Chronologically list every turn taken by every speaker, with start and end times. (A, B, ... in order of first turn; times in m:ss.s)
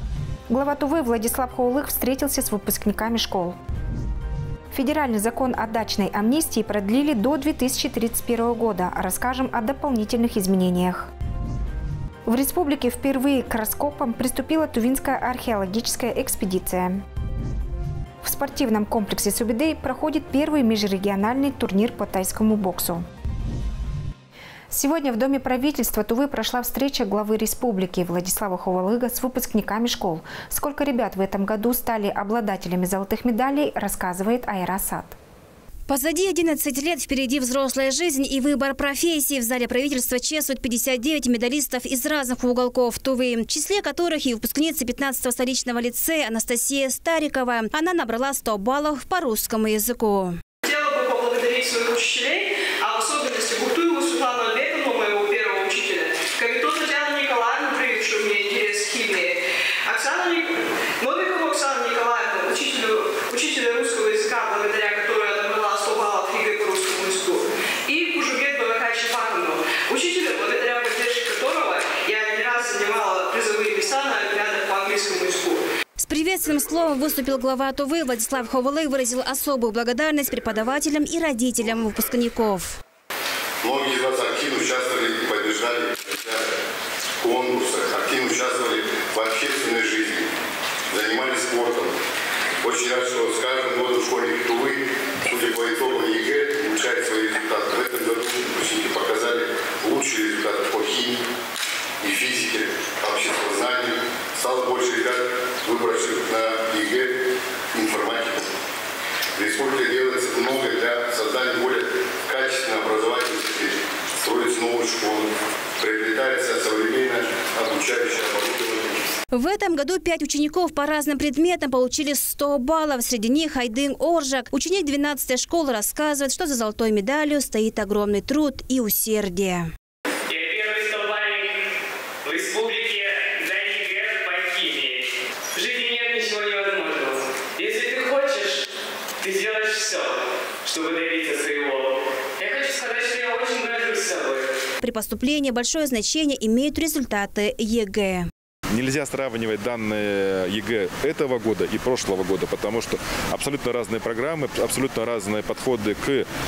0:00.5-0:03.6 A
0:04.7-0:11.1 A
0:12.3-0:17.0 A
0:18.2-0:23.1 A
0:24.7-0:35.2 A
0:35.9-0:50.4 B
0:50.6-1:15.6 C
1:16.0-1:22.8 B
1:23.6-1:26.4 D
1:27.2-1:30.2 D
1:30.9-1:31.9 D
1:32.6-1:41.2 D
1:42.0-1:47.1 D
1:47.8-1:48.4 D
1:49.4-1:55.2 D
1:55.8-1:58.8 D
1:59.3-2:09.7 B
2:10.6-2:11.2 E
2:12.3-2:14.9 E
2:15.6-2:18.6 E
2:19.2-2:20.0 E
2:20.7-2:21.8 E
2:22.4-2:24.4 E
2:24.8-2:28.3 B
2:28.7-2:36.3 F